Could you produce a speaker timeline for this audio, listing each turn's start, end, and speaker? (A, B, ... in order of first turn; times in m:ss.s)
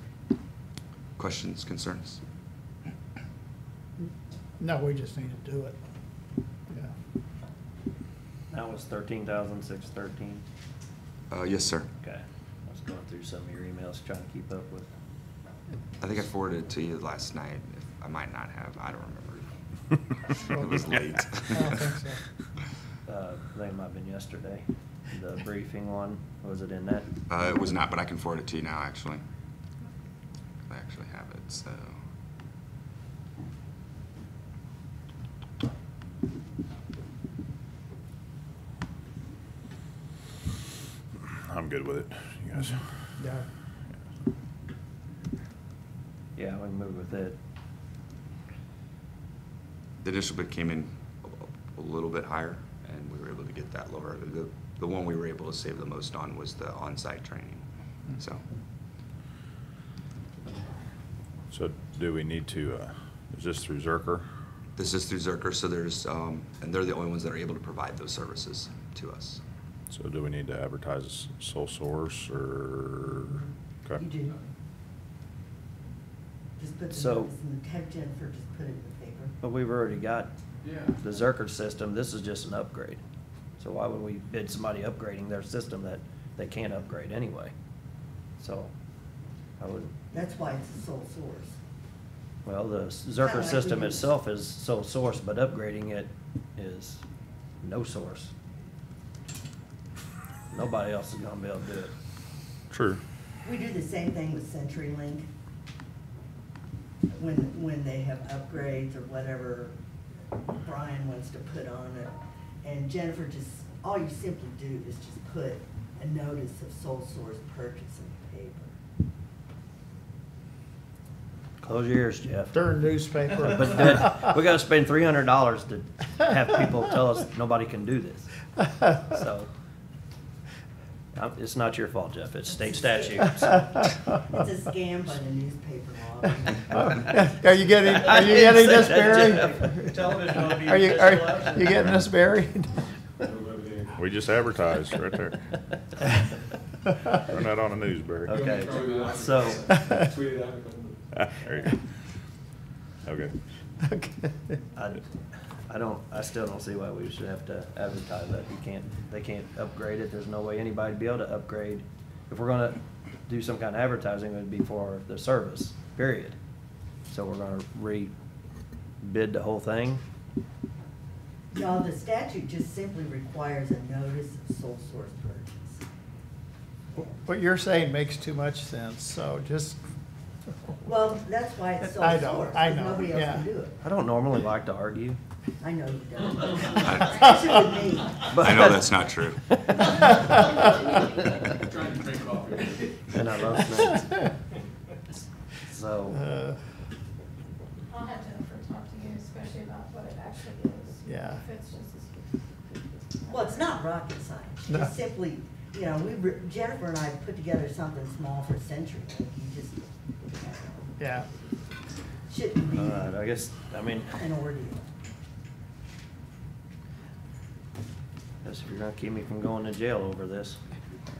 0:01.2-0:02.2 A
0:04.6-0:05.8 B
0:08.5-0:10.4 C
0:11.3-0:11.9 A
0:12.0-0:14.9 C
0:16.0-0:19.5 A
0:20.3-0:21.9 A
0:20.5-0:22.2 B
0:23.1-0:27.1 C
0:27.3-0:29.2 A
0:30.7-0:31.9 A
0:41.2-0:42.8 D
0:43.2-0:43.4 B
0:46.4-0:47.4 C
0:50.0-0:57.6 A
0:58.2-0:58.4 A
1:01.5-1:04.2 D
1:04.8-1:09.4 A
1:09.9-1:14.0 D
1:14.0-1:14.4 E
1:16.6-1:19.4 E
1:16.9-1:17.4 C
1:19.4-1:20.3 C
1:20.6-1:21.0 F
1:21.0-1:23.0 C
1:23.6-1:27.5 C
1:28.4-1:28.7 C
1:29.6-1:30.0 C
1:30.1-1:31.6 E
1:32.4-1:37.0 C
1:33.2-1:34.0 E
1:37.6-1:38.3 C
1:40.5-1:41.9 C
1:42.7-1:43.0 D
1:43.4-1:45.3 E
1:47.2-1:49.7 E
1:50.4-1:58.7 E
2:01.6-2:02.6 C
2:02.5-2:04.2 B
2:03.4-2:08.3 C
2:08.8-2:09.5 C
2:11.1-2:13.9 C
2:12.5-2:17.2 E
2:16.7-2:22.8 B
2:18.0-2:22.1 C
2:21.8-2:22.0 D
2:23.2-2:23.9 F
2:24.0-2:25.4 D
2:27.2-2:28.4 D
2:28.2-2:29.6 C
2:28.3-2:31.1 F
2:29.7-2:30.1 B
2:31.2-2:31.7 D
2:33.0-2:33.3 D
2:33.8-2:34.6 B
2:34.8-2:35.0 C
2:35.7-2:46.4 C
2:47.1-2:48.1 C
2:49.0-2:50.0 C
2:51.5-2:55.8 E
2:57.1-2:59.8 B
3:00.8-3:03.8 E
3:01.8-3:03.5 B
3:03.8-3:05.2 C
3:05.6-3:08.2 E
3:06.8-3:07.3 A
3:08.3-3:10.4 C
3:08.3-3:09.4 A
3:10.2-3:11.6 G
3:11.6-3:13.2 F
3:13.1-3:14.3 C
3:13.8-3:14.1 B
3:15.7-3:16.2 C
3:16.1-3:16.6 B
3:17.9-3:23.8 G
3:21.1-3:21.4 B
3:23.3-3:30.9 E
3:31.0-3:31.3 B
3:32.3-3:33.2 E
3:32.7-3:34.2 C
3:34.2-3:34.8 E
3:38.4-3:40.6 C